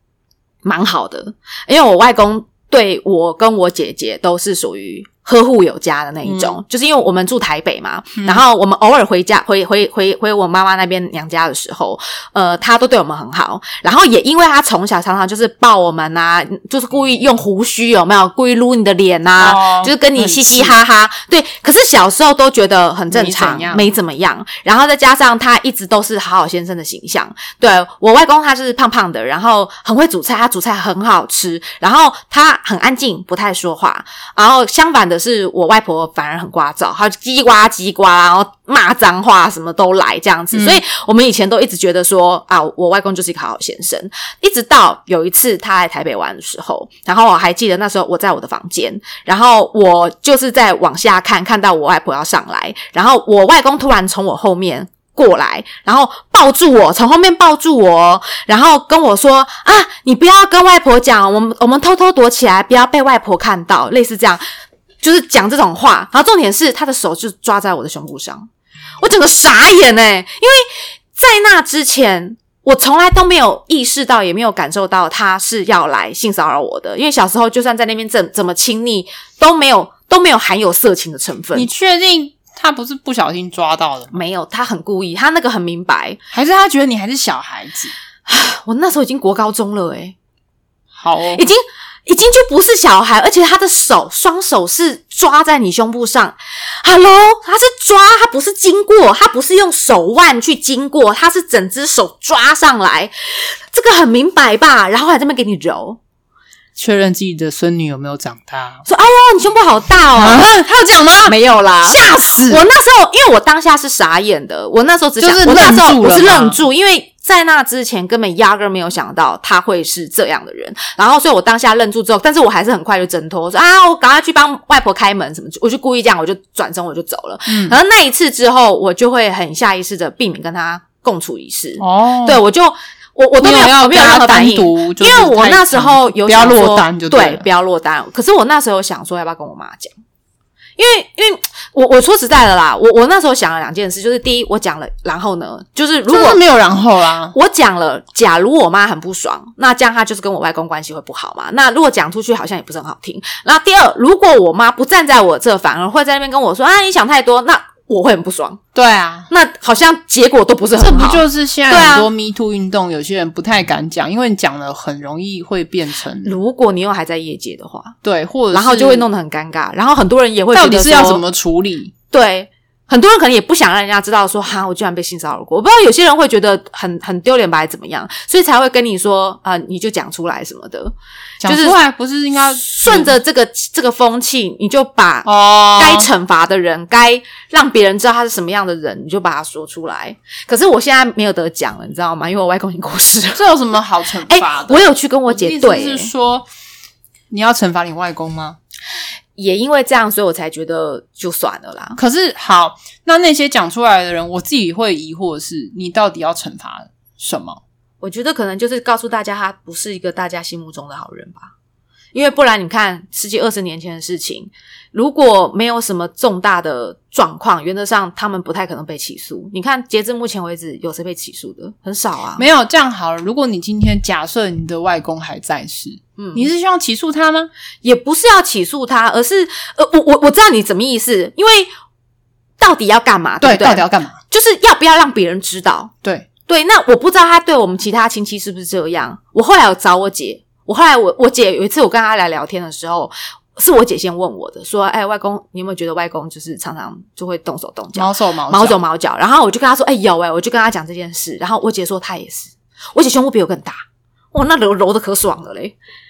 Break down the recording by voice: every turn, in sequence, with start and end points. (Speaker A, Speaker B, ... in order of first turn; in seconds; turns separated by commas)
Speaker A: 0.6-64.4, Speaker B: 6.2-6.6, Speaker B: 19.4-20.8, Speaker B: 23.1-23.9, Speaker B: 40.5-40.8, Speaker A: 65.0-68.5, Speaker A: 69.0-81.7, Speaker B: 81.5-84.2, Speaker A: 84.1-86.2, Speaker B: 86.3-87.9, Speaker A: 88.2-90.2, Speaker B: 90.9-91.4, Speaker A: 91.3-103.1, Speaker A: 103.7-106.0, Speaker B: 106.8-108.8, Speaker A: 108.9-110.5, Speaker B: 110.2-112.6, Speaker A: 111.2-139.9, Speaker B: 115.2-116.6, Speaker B: 127.5-127.8, Speaker B: 131.8-132.4, Speaker B: 133.4-137.4, Speaker A: 140.8-146.4, Speaker B: 146.1-147.3, Speaker A: 147.3-158.6, Speaker B: 158.7-159.3, Speaker A: 159.3-162.1, Speaker B: 160.8-166.3, Speaker A: 166.2-167.9, Speaker B: 168.0-169.1, Speaker A: 168.5-171.2, Speaker B: 170.5-171.9, Speaker A: 172.1-181.8, Speaker B: 181.4-183.2, Speaker A: 182.4-193.4, Speaker B: 185.2-186.1, Speaker B: 193.3-196.5, Speaker A: 194.3-196.1, Speaker B: 197.3-198.6, Speaker A: 199.4-202.0, Speaker B: 202.0-207.6, Speaker A: 208.0-211.5, Speaker A: 212.1-222.4, Speaker B: 222.4-227.5, Speaker A: 226.2-226.5, Speaker A: 227.8-231.7, Speaker A: 232.6-235.9, Speaker B: 233.4-234.2, Speaker A: 236.5-255.8, Speaker B: 247.9-248.8